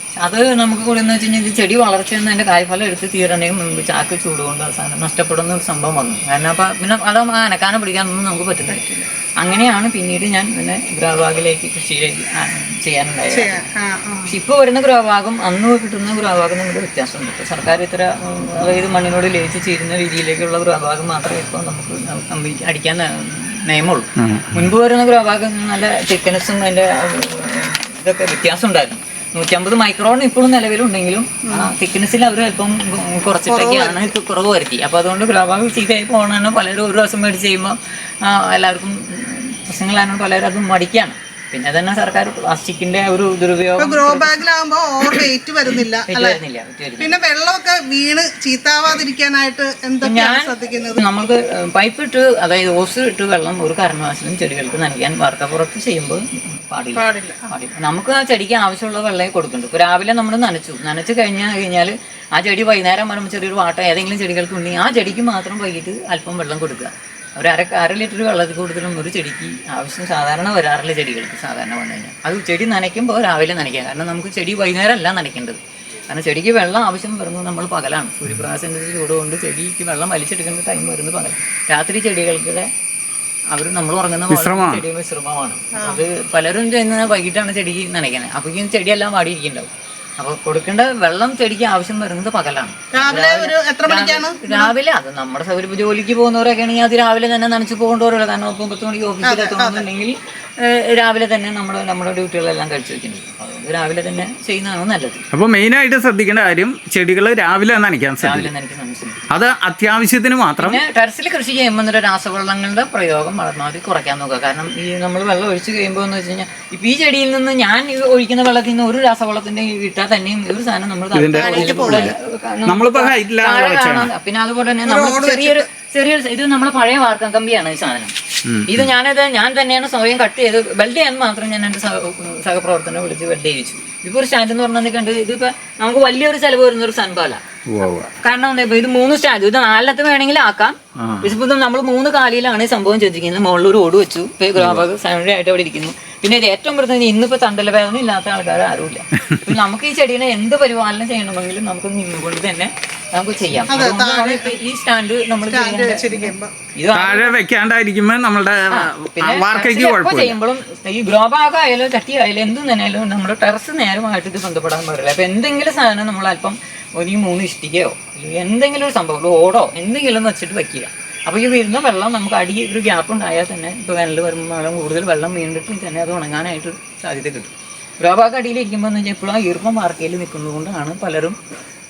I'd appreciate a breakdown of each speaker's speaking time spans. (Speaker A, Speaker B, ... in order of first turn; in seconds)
Speaker A: 0.2-8.8, 9.4-13.6, 14.3-44.4, 46.1-47.1, 50.0-82.7, 83.5-105.2, 108.2-109.2, 110.6-128.1, 128.7-137.4, 138.2-157.4, 158.7-181.4
Speaker B: 8.7-9.1, 13.3-14.3, 33.5-34.1, 43.8-46.4, 47.0-51.0, 56.9-57.4, 85.8-86.0, 92.9-94.7, 99.2-99.8, 121.3-122.1, 124.8-125.6, 153.7-154.6, 155.4-156.5
Speaker C: 24.2-24.6, 84.3-84.8, 105.3-108.5, 109.3-110.8, 121.1-124.1, 128.4-128.9, 137.7-138.1, 141.0-141.3, 144.6-144.8, 156.9-160.4